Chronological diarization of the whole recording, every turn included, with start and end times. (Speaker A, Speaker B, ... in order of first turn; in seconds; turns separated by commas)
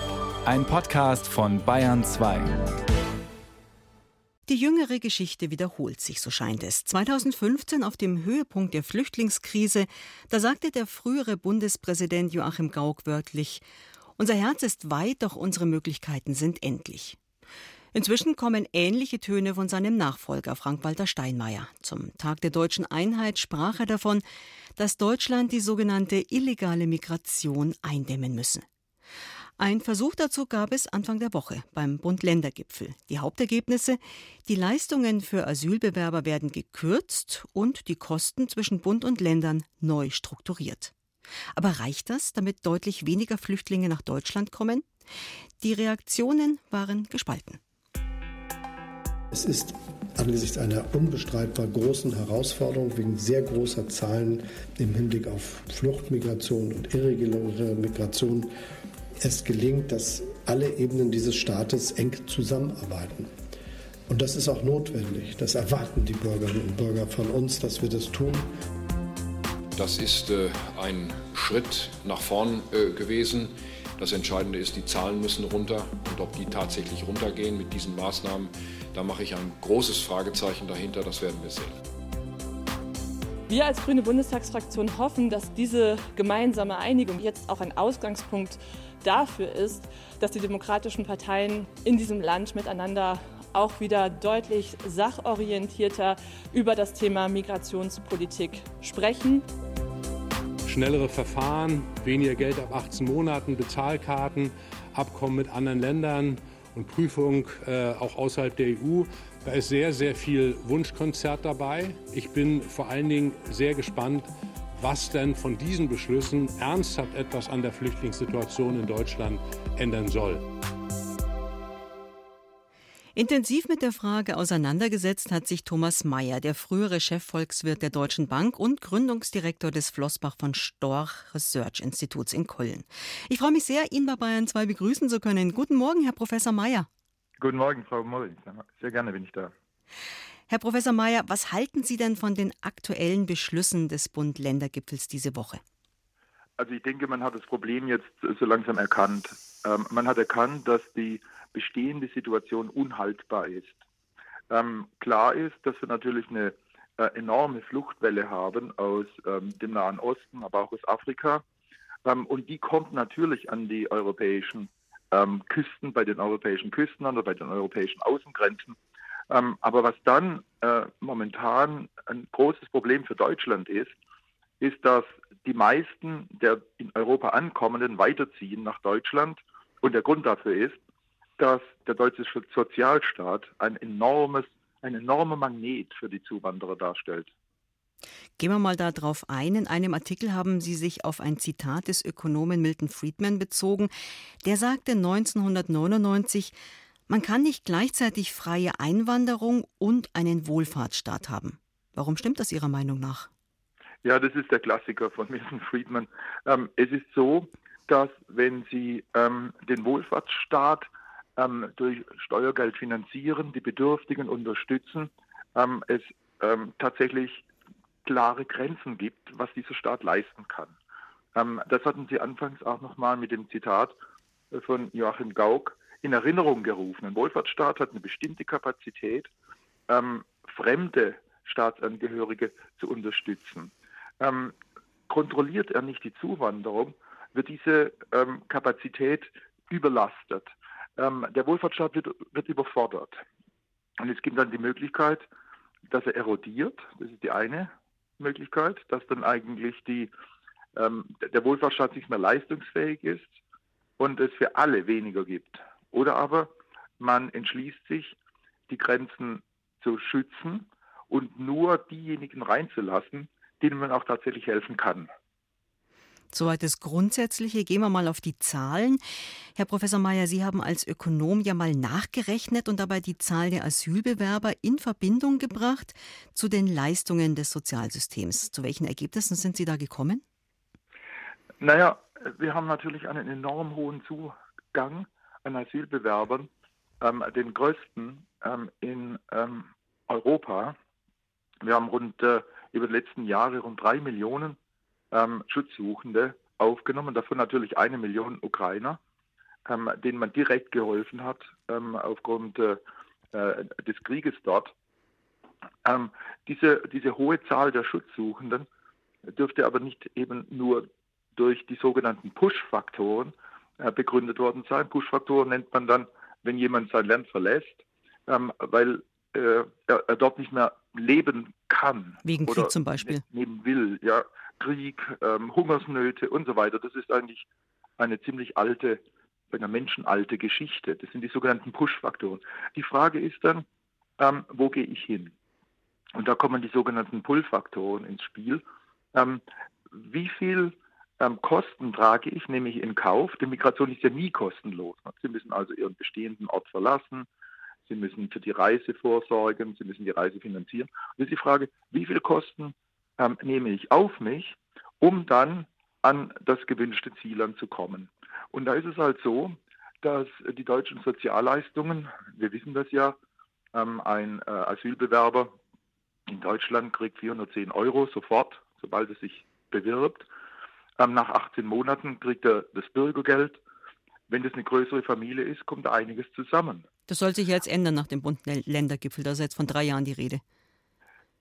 Speaker A: 0.4-2.6, Speaker B: 4.5-13.6, Speaker B: 14.2-17.2, Speaker B: 17.9-24.2, Speaker B: 24.8-28.6, Speaker B: 29.6-40.9, Speaker B: 41.5-44.9, Speaker B: 45.6-47.6, Speaker C: 49.3-58.5, Speaker C: 59.2-63.3, Speaker C: 64.1-68.5, Speaker D: 69.8-81.8, Speaker E: 83.5-99.4, Speaker F: 100.7-120.4, Speaker B: 123.1-136.9, Speaker G: 137.4-139.5, Speaker B: 140.5-145.6, Speaker G: 146.6-153.8, Speaker G: 154.5-161.4, Speaker G: 162.0-168.8, Speaker G: 169.3-173.9, Speaker G: 174.6-180.8, Speaker G: 181.4-187.3, Speaker B: 188.4-193.9, Speaker B: 194.4-196.5, Speaker B: 197.1-203.3, Speaker G: 204.0-217.4, Speaker G: 218.0-220.8, Speaker G: 221.3-223.9, Speaker G: 224.5-229.3, Speaker G: 229.9-234.6, Speaker G: 235.1-243.2, Speaker G: 244.0-245.2, Speaker G: 245.9-250.1, Speaker G: 250.8-253.3, Speaker G: 254.0-258.1, Speaker G: 258.7-265.1, Speaker B: 266.3-269.0, Speaker B: 269.6-280.2, Speaker G: 281.6-286.5, Speaker G: 287.0-290.8, Speaker G: 291.6-294.6, Speaker G: 295.1-299.0, Speaker G: 299.6-302.8, Speaker G: 303.3-304.7, Speaker G: 305.8-308.6, Speaker G: 309.3-327.4, Speaker B: 322.2-323.2, Speaker G: 328.0-333.6, Speaker G: 334.2-335.3, Speaker G: 336.1-347.3, Speaker G: 347.9-363.1, Speaker G: 363.7-365.5, Speaker G: 366.3-370.3, Speaker G: 371.0-373.6, Speaker G: 374.3-376.9, Speaker B: 377.1-380.4